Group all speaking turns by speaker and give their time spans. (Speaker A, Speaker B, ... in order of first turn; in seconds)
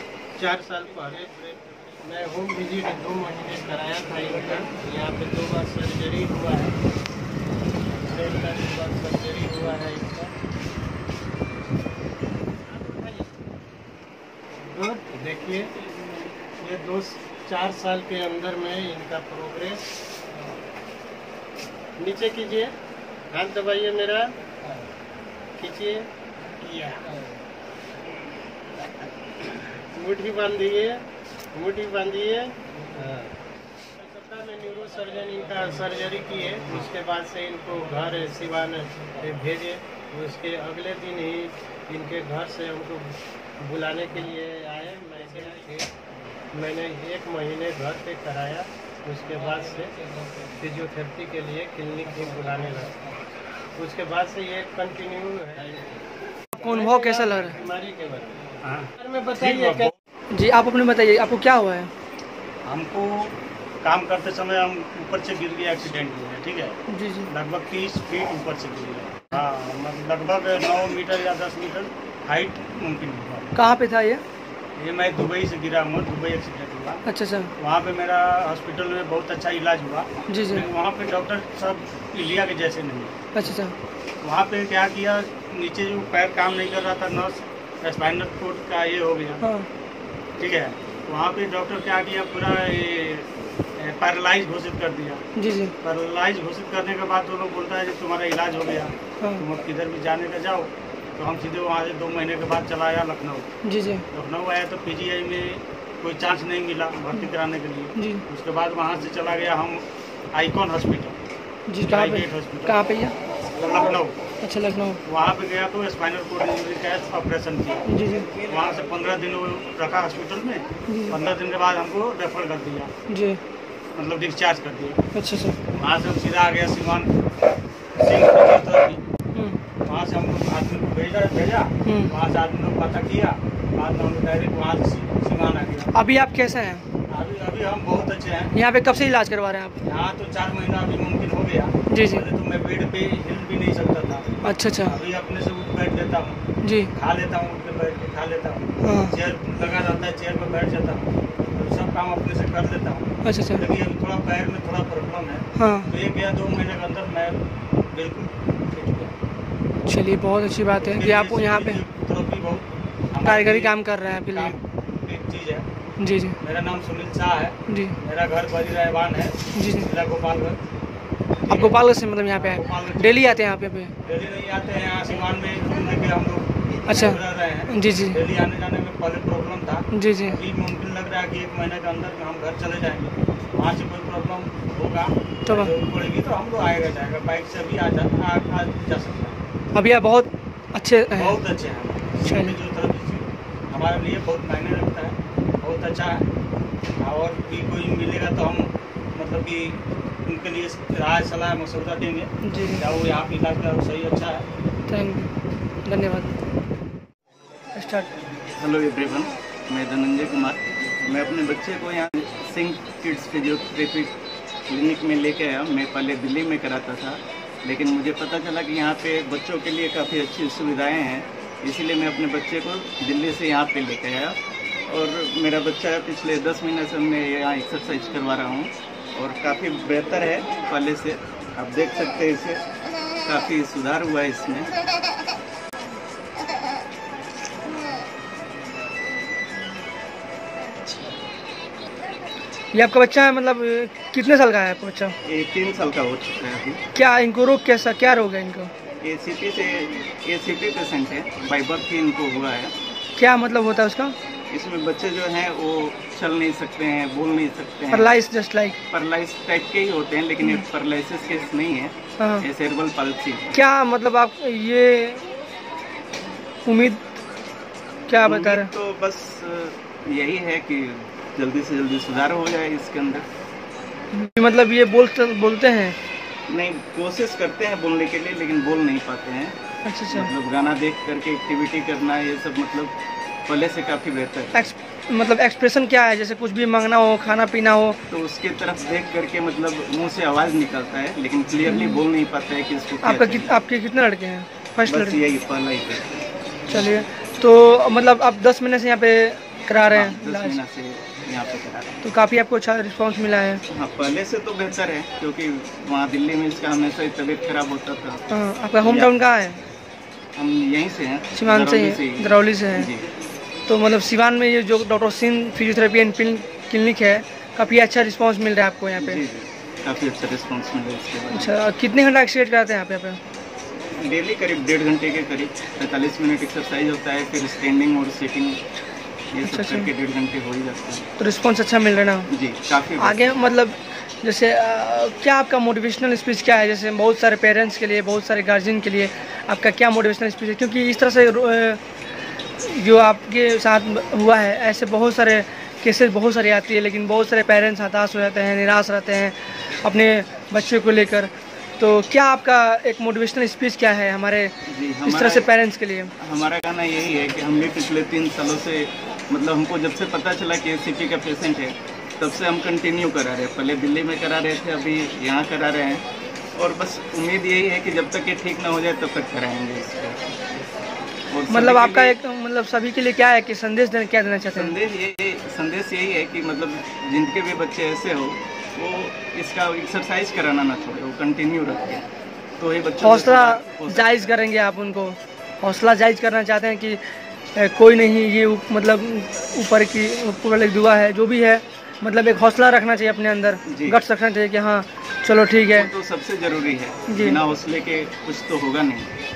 Speaker A: 0.4-6.8, 7.9-10.3, 12.7-13.4, 14.6-15.7, 16.6-19.8, 22.0-22.7, 23.3-24.2, 25.6-26.0, 27.1-27.3, 29.9-30.9, 31.5-33.3, 34.0-45.9, 46.5-49.9, 50.5-53.0, 53.8-59.9
Speaker B: 56.5-57.6, 60.3-61.9, 66.9-67.3, 73.5-74.2, 77.0-77.5, 80.3-80.7, 83.3-83.7, 89.4-89.7, 95.4-95.7, 103.6-104.0, 107.9-108.2, 111.7-113.1, 114.4-115.0, 117.9-118.3, 120.9-121.2, 123.1-123.4, 125.1-125.6, 131.8-132.1, 135.9-136.8, 138.5-139.8, 141.9-142.2, 144.4-144.9, 146.6-146.9, 148.8-149.1, 153.2-153.6, 155.6-155.9, 159.8-161.8, 163.2-164.5, 166.0-166.4, 167.7-167.9, 169.5-169.9, 171.5-173.9, 176.9-178.2, 179.9-180.4, 185.4-185.7, 189.7-191.4, 192.2-192.6, 202.4-202.8, 204.9-205.3, 205.8-206.3, 207.8-208.1, 242.7-245.1, 246.9-248.7, 253.2-254.1, 257.9-258.8, 262.2-262.4, 263.5-265.3, 266.6-267.0, 268.1-268.7, 274.1-275.9, 279.8-280.3, 284.5-288.0, 291.6-292.0, 293.0-295.2, 296.7-300.6, 302.0-303.6, 308.3-309.6, 311.3-312.9, 313.7-319.2, 321.3-323.2, 329.4-329.9, 331.2-332.3, 333.0-341.8, 342.6-354.5, 355.0-356.1, 371.5-374.7, 383.0-387.0, 387.6-395.9, 397.1-397.4
Speaker C: 58.6-59.9, 62.6-66.8, 67.3-73.5, 74.8-77.0, 77.6-83.1, 84.2-89.4, 90.4-95.2, 95.8-103.5, 104.1-111.2, 111.9-112.8, 113.5-114.2, 115.0-117.9, 118.4-122.9, 124.0-125.0, 125.7-127.1, 128.0-129.0, 129.8-135.9, 137.1-138.5, 139.8-146.4, 146.9-157.4, 157.9-159.1, 160.8-163.8, 164.3-165.7, 166.4-170.6, 171.4-171.8, 172.5-173.4, 174.0-189.4, 191.2-196.2, 197.0-204.4
Speaker D: 208.6-214.1, 214.7-232.6, 233.2-234.7, 245.2-246.8, 249.0-252.7, 254.5-258.1, 258.9-263.5, 268.2-273.3, 276.5-279.6, 280.1-282.9, 283.5-284.6, 288.1-293.5, 294.9-296.2, 299.9-302.0, 303.7-308.2, 308.8-309.1, 310.4-313.1, 319.0-321.5, 324.0-328.6, 329.3-331.1, 332.3-333.3, 354.7-355.5, 356.2-370.6, 371.3-372.1, 374.5-382.1, 382.6-384.4, 393.7-394.0, 395.7-399.1